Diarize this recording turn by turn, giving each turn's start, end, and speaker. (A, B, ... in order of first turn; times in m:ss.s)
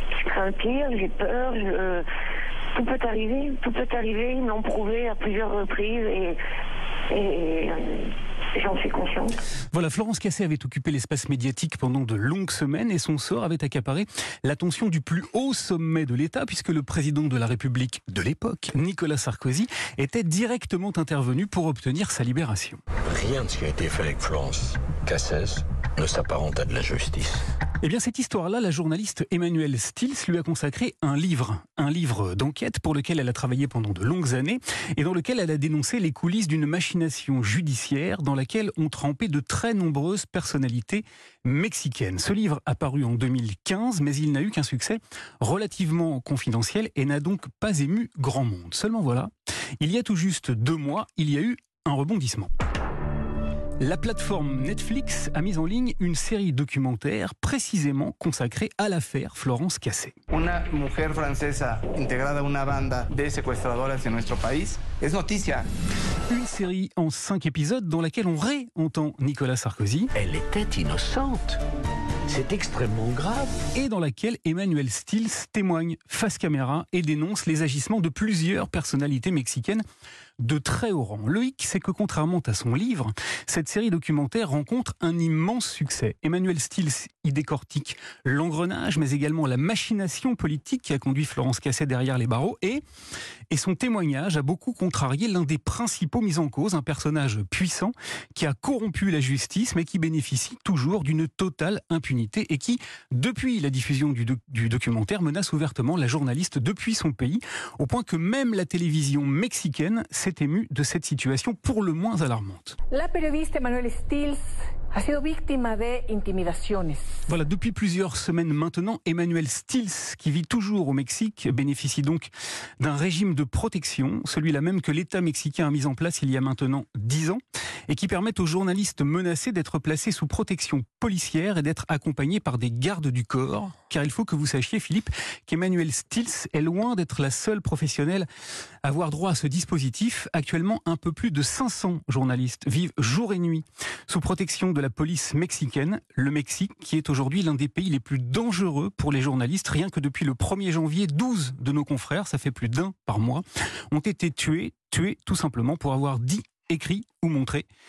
0:00.2-0:02.0 A
0:02.8-0:06.4 A
0:07.1-0:09.3 A
0:09.7-0:22.8 B
0:23.0-0:27.4 C
0:27.8-0:52.5 B
0:53.8-1:00.2 B
1:00.3-1:05.7 D
1:06.3-1:10.1 B
1:10.2-1:11.6 C
1:12.3-1:13.6 C
1:13.7-1:19.8 B
1:20.4-1:32.8 B
1:33.5-1:52.8 B
1:52.9-1:54.4 E
1:54.9-1:57.0 E
1:57.3-2:18.3 B
2:18.8-2:37.7 B